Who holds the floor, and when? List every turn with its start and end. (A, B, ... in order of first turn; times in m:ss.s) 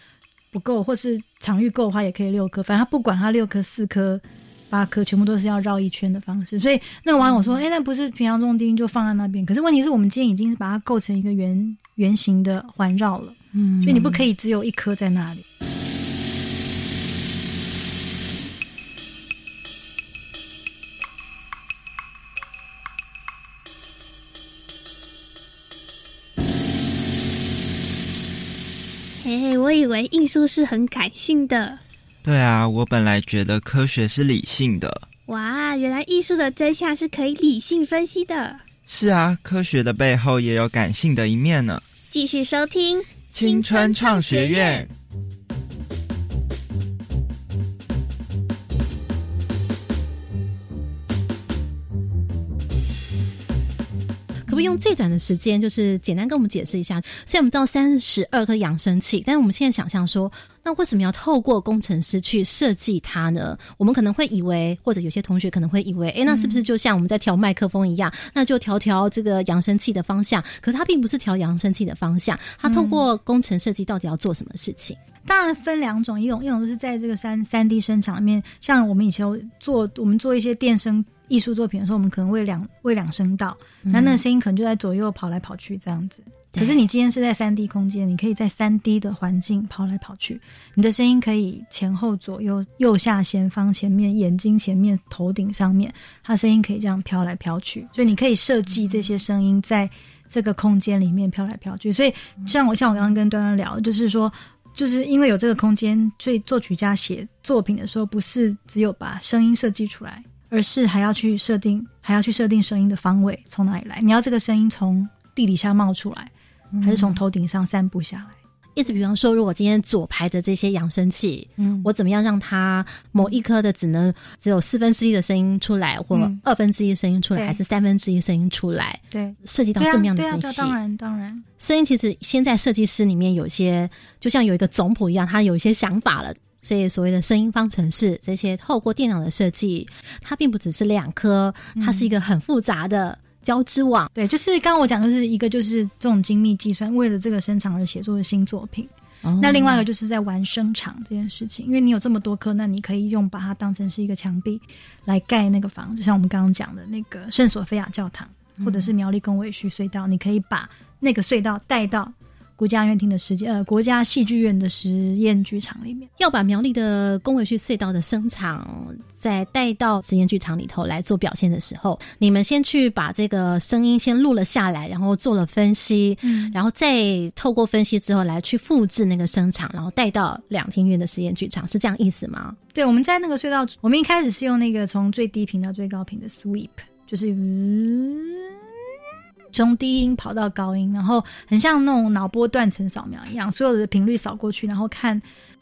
0:00.5-0:15.4 A
0:13.5-0:14.2 B
0:29.2-0:31.8 C
0:32.2-0:35.0 D
0:35.3-0:38.6 C
0:38.9-0:41.8 D
0:42.1-0:44.9 C
0:43.3-0:44.9 D
0:54.5-1:15.0 B
1:06.3-1:06.6 A
1:12.6-1:13.0 A
1:15.2-1:56.3 A
1:23.8-1:24.2 B
1:26.5-1:26.8 B
1:56.7-1:57.2 B
1:56.8-1:58.4 A
1:58.8-2:10.8 B
2:01.6-2:01.9 A
2:06.1-2:06.4 A
2:09.1-2:11.4 A
2:11.6-2:24.1 B
2:21.8-2:22.1 A
2:24.1-2:46.1 A
2:29.2-2:29.8 B
2:38.6-2:38.9 B
2:46.2-3:02.6 B
2:56.2-2:56.5 A
3:02.7-3:08.6 A
3:09.5-3:15.2 A